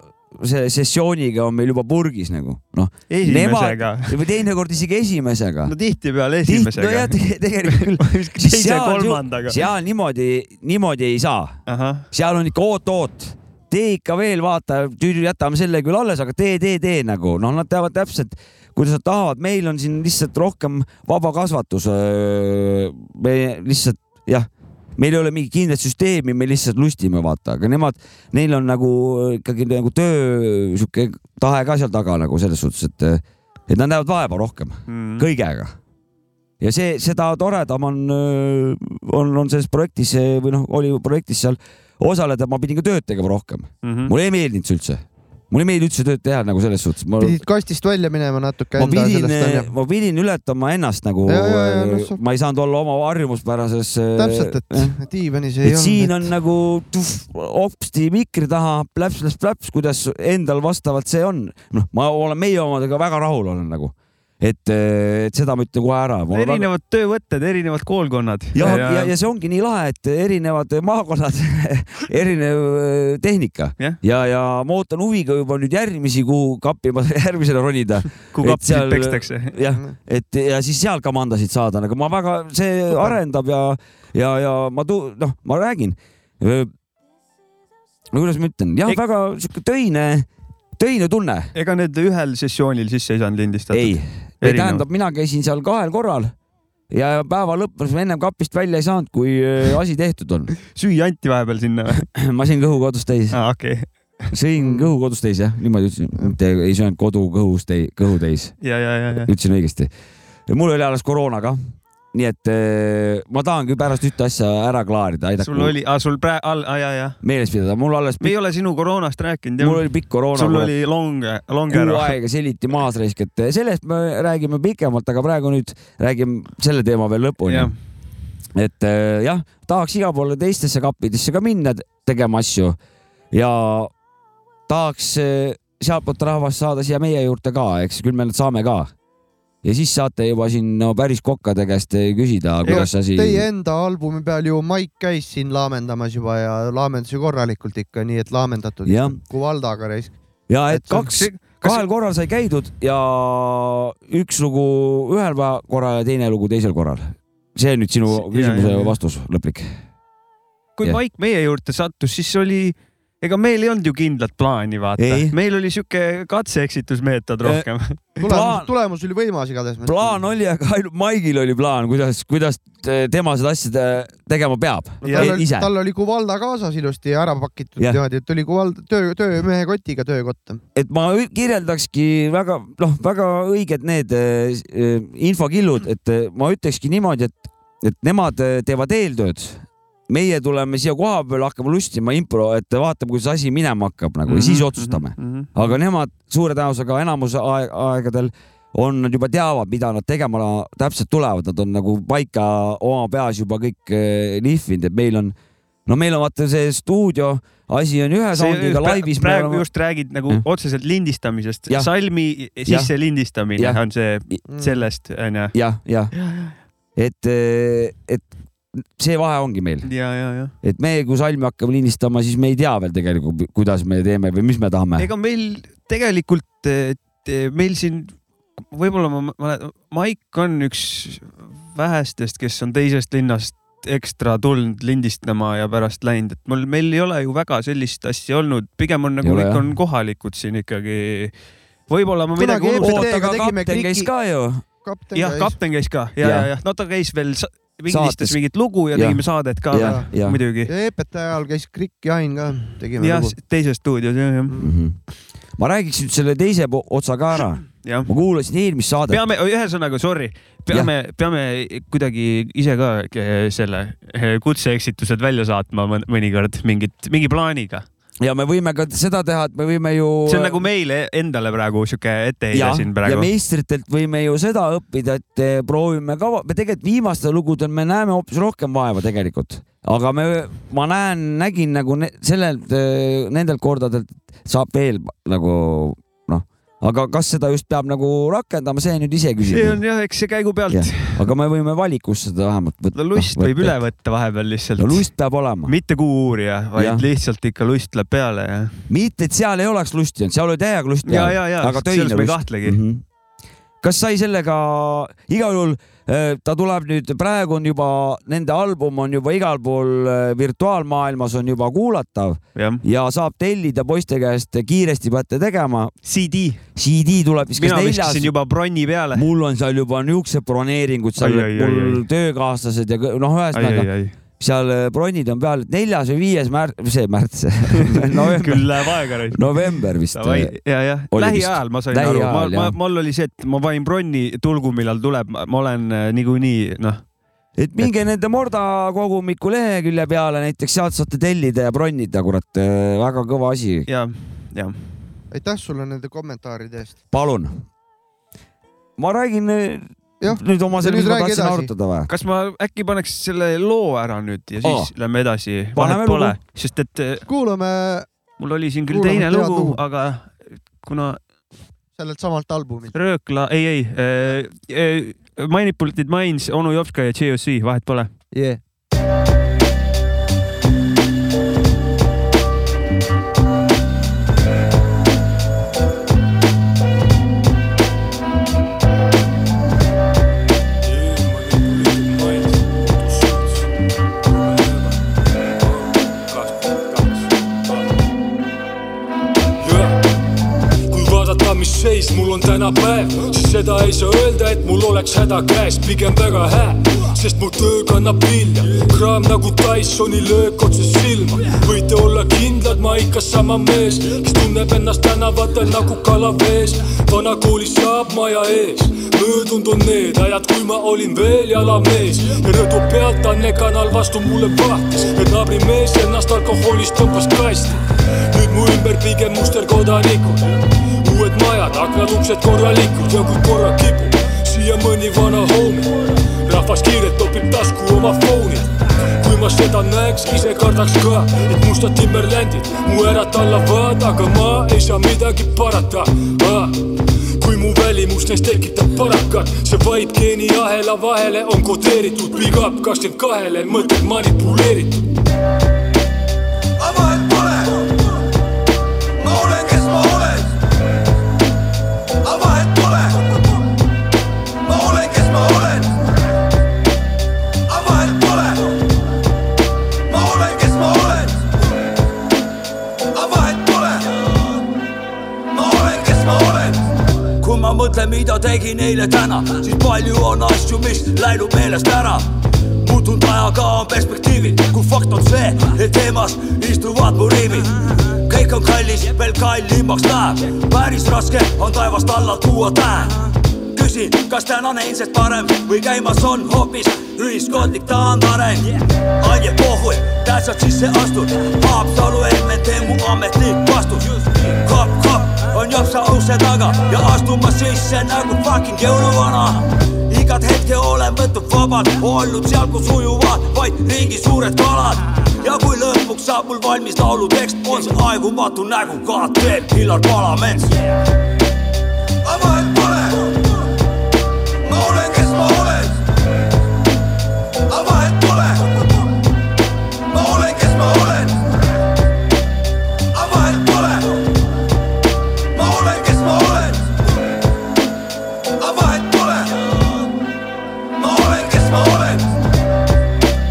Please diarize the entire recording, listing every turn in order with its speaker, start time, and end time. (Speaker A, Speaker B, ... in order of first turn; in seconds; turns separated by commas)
Speaker A: 0.3-5.7, Speaker B: 3.1-4.2, Speaker B: 5.7-9.6, Speaker A: 6.5-11.6, Speaker B: 11.7-12.1, Speaker A: 12.1-35.7, Speaker B: 34.9-35.3, Speaker A: 36.6-47.4, Speaker B: 43.8-44.1, Speaker C: 47.2-49.7, Speaker A: 48.8-54.9, Speaker C: 51.3-52.2, Speaker C: 54.2-56.3, Speaker A: 55.6-66.7, Speaker B: 66.3-69.1, Speaker A: 68.5-86.7, Speaker B: 78.3-79.5, Speaker A: 88.1-91.5, Speaker B: 91.5-94.8, Speaker A: 93.7-96.3, Speaker A: 96.9-100.5, Speaker B: 100.6-102.1, Speaker A: 101.9-103.4, Speaker B: 103.3-103.9, Speaker A: 104.3-108.5, Speaker C: 104.6-104.9, Speaker B: 108.6-109.3, Speaker A: 109.1-109.9, Speaker A: 110.5-111.6, Speaker A: 112.1-115.7, Speaker B: 115.4-117.2, Speaker A: 117.2-118.4, Speaker B: 118.2-122.1, Speaker A: 119.6-120.7, Speaker A: 121.7-127.7, Speaker B: 127.5-127.8, Speaker A: 128.6-132.8, Speaker A: 133.3-133.9, Speaker A: 134.7-138.9, Speaker A: 139.6-143.5, Speaker C: 142.7-150.2, Speaker A: 148.9-149.2, Speaker A: 150.5-159.7, Speaker C: 150.7-151.1, Speaker B: 151.0-151.8, Speaker B: 158.1-159.0, Speaker B: 160.8-168.0, Speaker A: 165.0-165.3, Speaker C: 168.2-170.2, Speaker A: 168.2-168.7, Speaker A: 169.8-175.7, Speaker C: 175.0-180.6, Speaker B: 175.0-175.4, Speaker A: 180.8-205.3, Speaker B: 194.3-195.5, Speaker A: 205.9-209.7, Speaker B: 208.3-215.5, Speaker C: 214.5-214.8, Speaker A: 215.5-216.1, Speaker B: 216.2-216.5, Speaker A: 217.0-219.9, Speaker B: 219.8-220.5, Speaker A: 220.6-225.1, Speaker B: 225.0-228.2, Speaker B: 228.7-241.3, Speaker A: 239.2-239.6, Speaker B: 241.9-243.1, Speaker C: 242.4-244.1, Speaker A: 242.8-244.6, Speaker C: 244.8-245.5, Speaker B: 245.2-250.7, Speaker A: 246.2-246.5, Speaker A: 247.9-248.4, Speaker A: 248.9-250.4, Speaker C: 249.8-250.1, Speaker C: 250.7-253.3, Speaker B: 253.0-254.6, Speaker A: 254.6-255.0, Speaker A: 255.6-259.2, Speaker B: 257.8-258.1, Speaker B: 259.1-267.9, Speaker A: 268.2-270.6, Speaker B: 270.3-273.3, Speaker A: 272.5-289.8, Speaker B: 289.4-291.2, Speaker A: 290.7-293.8, Speaker B: 292.9-295.1, Speaker A: 294.8-295.7, Speaker B: 295.7-298.8, Speaker A: 296.8-297.0, Speaker A: 298.9-303.0, Speaker B: 301.1-302.8, Speaker A: 303.8-315.9, Speaker B: 312.6-312.8, Speaker B: 316.1-316.6, Speaker A: 316.8-318.3, Speaker B: 317.6-319.3, Speaker A: 319.1-323.9, Speaker B: 321.2-322.0, Speaker B: 323.5-324.1, Speaker A: 324.4-330.5, Speaker B: 327.8-329.5, Speaker B: 330.1-337.0, Speaker A: 331.1-332.8, Speaker A: 337.6-343.9, Speaker B: 343.9-344.8, Speaker C: 345.3-347.0, Speaker A: 347.1-347.6, Speaker A: 349.0-352.1, Speaker C: 350.2-351.7, Speaker B: 352.1-357.3, Speaker A: 354.6-354.9, Speaker A: 355.8-356.4, Speaker C: 357.3-358.1, Speaker B: 358.4-361.2, Speaker C: 358.9-359.8, Speaker C: 362.0-362.9, Speaker B: 362.9-368.1, Speaker C: 368.3-368.6, Speaker D: 380.8-383.7, Speaker D: 384.2-387.3, Speaker D: 389.6-390.0, Speaker D: 390.9-417.8, Speaker D: 418.3-420.4, Speaker D: 421.0-445.0, Speaker E: 446.9-447.7, Speaker E: 449.3-450.4, Speaker E: 452.3-453.1, Speaker E: 454.7-455.9, Speaker E: 457.8-458.6, Speaker E: 460.1-461.3, Speaker E: 463.2-464.1, Speaker E: 465.5-466.8, Speaker E: 467.4-510.8, Speaker E: 512.3-513.2, Speaker E: 514.7-515.9, Speaker E: 517.8-518.6, Speaker E: 520.2-521.4, Speaker E: 523.2-524.0, Speaker E: 525.6-526.8, Speaker E: 528.8-529.5, Speaker E: 531.1-532.2